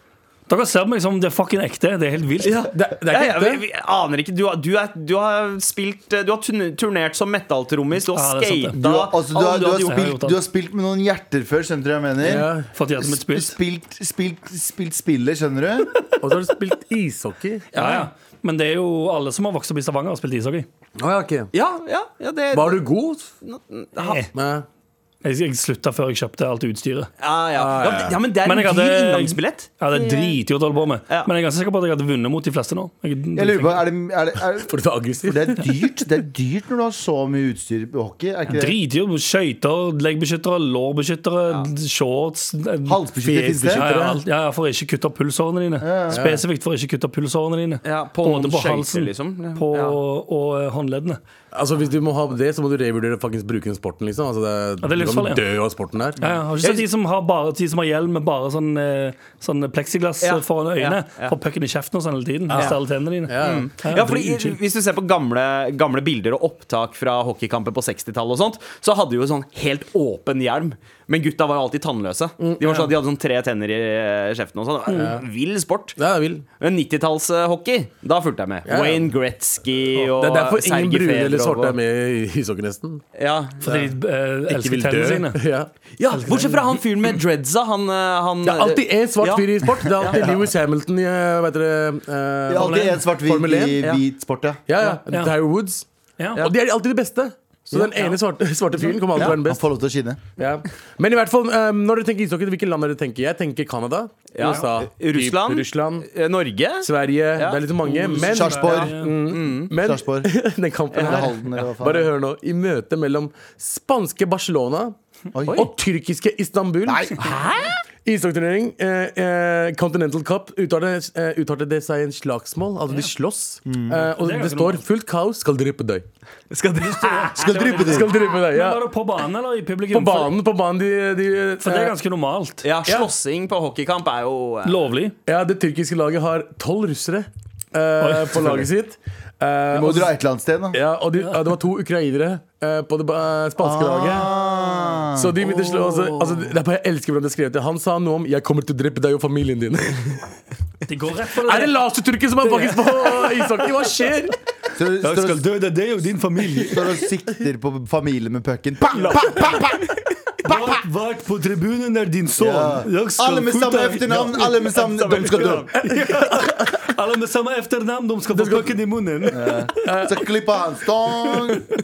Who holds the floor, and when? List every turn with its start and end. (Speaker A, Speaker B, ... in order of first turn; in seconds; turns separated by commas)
Speaker A: 0.5-2.6, Speaker B: 2.4-9.9, Speaker C: 2.7-3.6, Speaker A: 8.1-8.8, Speaker D: 8.8-15.9, Speaker A: 9.6-10.4, Speaker C: 12.2-12.7, Speaker A: 12.7-13.6, Speaker C: 16.2-17.7, Speaker B: 17.7-18.1, Speaker A: 17.7-20.7, Speaker C: 21.0-21.5, Speaker B: 21.5-22.9, Speaker C: 22.5-23.3, Speaker B: 23.4-24.3, Speaker A: 24.0-24.3, Speaker C: 24.3-24.6, Speaker A: 25.2-27.1, Speaker B: 27.2-30.4, Speaker C: 27.6-28.2, Speaker A: 28.4-33.8, Speaker D: 33.3-38.8, Speaker C: 34.6-35.7, Speaker A: 38.5-43.0, Speaker D: 42.9-43.9, Speaker C: 43.2-44.2, Speaker A: 43.7-51.2, Speaker D: 45.8-46.2, Speaker C: 46.1-46.4, Speaker B: 47.8-50.0, Speaker C: 51.5-56.3, Speaker A: 54.8-55.4, Speaker A: 56.2-64.6, Speaker B: 60.2-61.3, Speaker C: 62.5-63.7, Speaker B: 63.4-76.0, Speaker C: 72.4-72.9, Speaker C: 74.9-75.2, Speaker C: 76.0-76.4, Speaker B: 76.6-81.8, Speaker C: 78.7-79.1, Speaker C: 80.1-83.0, Speaker B: 83.1-83.6, Speaker A: 83.6-85.4, Speaker C: 83.6-83.9, Speaker C: 84.5-85.7, Speaker B: 86.0-90.3, Speaker A: 86.1-86.8, Speaker C: 88.4-93.8, Speaker D: 92.5-94.6, Speaker A: 92.6-93.0, Speaker C: 94.7-95.9, Speaker A: 94.8-95.3, Speaker A: 96.2-96.4, Speaker C: 96.4-99.6, Speaker A: 97.7-98.1, Speaker D: 99.1-100.2, Speaker C: 100.4-106.1, Speaker B: 104.3-107.6, Speaker C: 106.8-115.0, Speaker A: 107.8-109.1, Speaker D: 108.2-109.0, Speaker B: 109.3-109.7, Speaker D: 109.8-110.3, Speaker B: 110.9-111.7, Speaker D: 111.0-112.1, Speaker D: 115.3-115.7, Speaker C: 115.5-117.1, Speaker D: 116.8-117.4, Speaker B: 117.2-117.8, Speaker C: 118.0-126.0, Speaker D: 123.7-124.1, Speaker A: 124.1-124.8, Speaker B: 126.5-127.7, Speaker A: 126.8-130.3, Speaker D: 127.3-128.1, Speaker C: 127.7-128.9, Speaker C: 129.9-131.9, Speaker A: 131.6-132.7, Speaker B: 132.6-134.8, Speaker A: 134.6-135.2, Speaker C: 135.2-140.1, Speaker A: 138.0-138.7, Speaker D: 139.7-140.8, Speaker C: 140.7-144.3, Speaker D: 143.6-146.5, Speaker C: 145.1-150.3, Speaker A: 150.8-151.7, Speaker C: 151.4-154.3, Speaker A: 152.4-153.2, Speaker D: 154.7-155.4, Speaker A: 155.0-156.9, Speaker D: 156.6-159.8, Speaker B: 158.9-160.0, Speaker D: 160.4-160.8, Speaker A: 160.4-164.8, Speaker D: 162.4-165.7, Speaker B: 164.8-165.8, Speaker A: 165.8-169.8, Speaker C: 165.8-166.7, Speaker C: 168.3-168.8, Speaker D: 169.3-171.7, Speaker C: 169.8-170.2